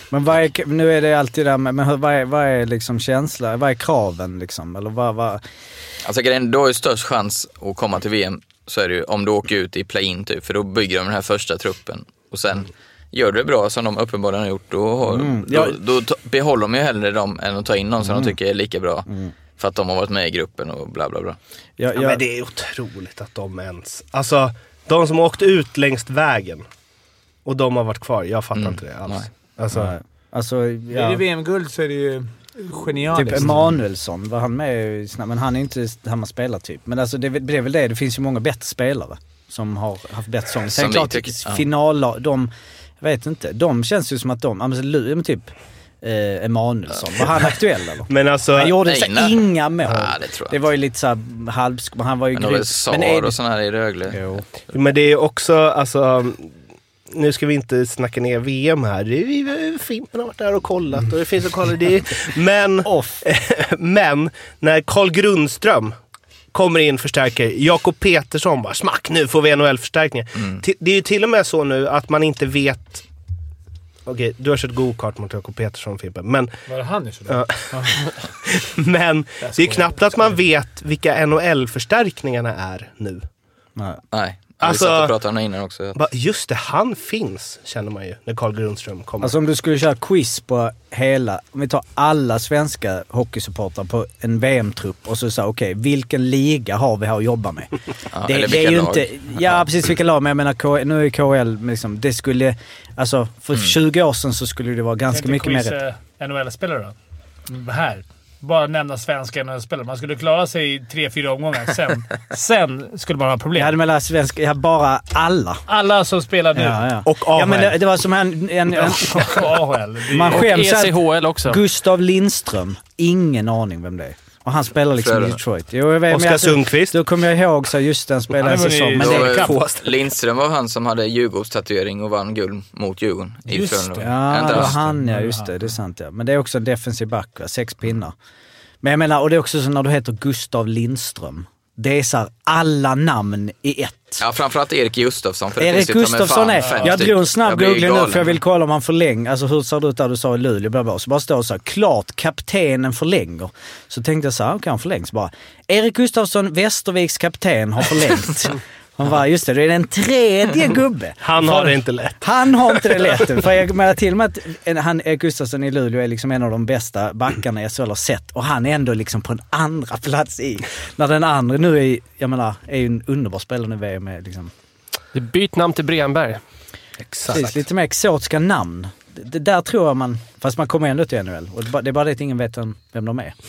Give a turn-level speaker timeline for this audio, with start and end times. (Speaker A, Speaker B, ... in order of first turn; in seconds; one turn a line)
Speaker A: 0.1-5.4
Speaker B: 6.0-21.4
Speaker A: 15.0-15.8
Speaker A: 18.0-18.3
Speaker A: 19.1-19.3
Speaker A: 21.8-22.2
Speaker C: 21.9-26.6
Speaker C: 27.4-29.9
Speaker B: 28.5-29.3
Speaker A: 29.7-31.2
Speaker D: 30.9-33.7
Speaker A: 33.1-45.5
Speaker B: 40.7-41.6
Speaker A: 46.0-53.4
Speaker C: 48.1-48.8
Speaker B: 48.8-50.6
Speaker B: 52.3-54.2
Speaker A: 54.1-54.4
Speaker C: 54.7-56.5
Speaker C: 57.1-65.9
Speaker A: 62.8-63.2
Speaker C: 66.5-73.0
Speaker C: 74.0-76.5
Speaker D: 76.7-78.0
Speaker C: 77.3-77.9
Speaker C: 78.5-83.2
Speaker D: 79.4-80.4
Speaker A: 83.8-84.0
Speaker B: 84.1-86.0
Speaker C: 84.6-85.1
Speaker C: 86.0-89.3
Speaker A: 89.2-97.7
Speaker B: 98.1-99.6
Speaker A: 98.2-105.8
Speaker D: 105.1-106.9
Speaker D: 107.5-113.8
Speaker A: 113.5-115.6
Speaker D: 115.7-116.8
Speaker A: 116.5-119.4
Speaker C: 117.0-117.8
Speaker D: 118.7-120.5
Speaker A: 120.1-129.5
Speaker E: 120.3-121.6
Speaker B: 125.0-125.4
Speaker C: 126.1-127.0
Speaker D: 128.4-129.5
Speaker B: 129.0-134.8
Speaker C: 129.3-129.9
Speaker D: 133.5-135.7
Speaker A: 134.0-138.1
Speaker A: 138.8-144.2
Speaker B: 144.2-148.3
Speaker A: 145.6-174.5
Speaker D: 146.6-147.0
Speaker C: 161.2-163.1
Speaker E: 175.1-176.4
Speaker C: 177.0-177.6
Speaker A: 177.3-183.3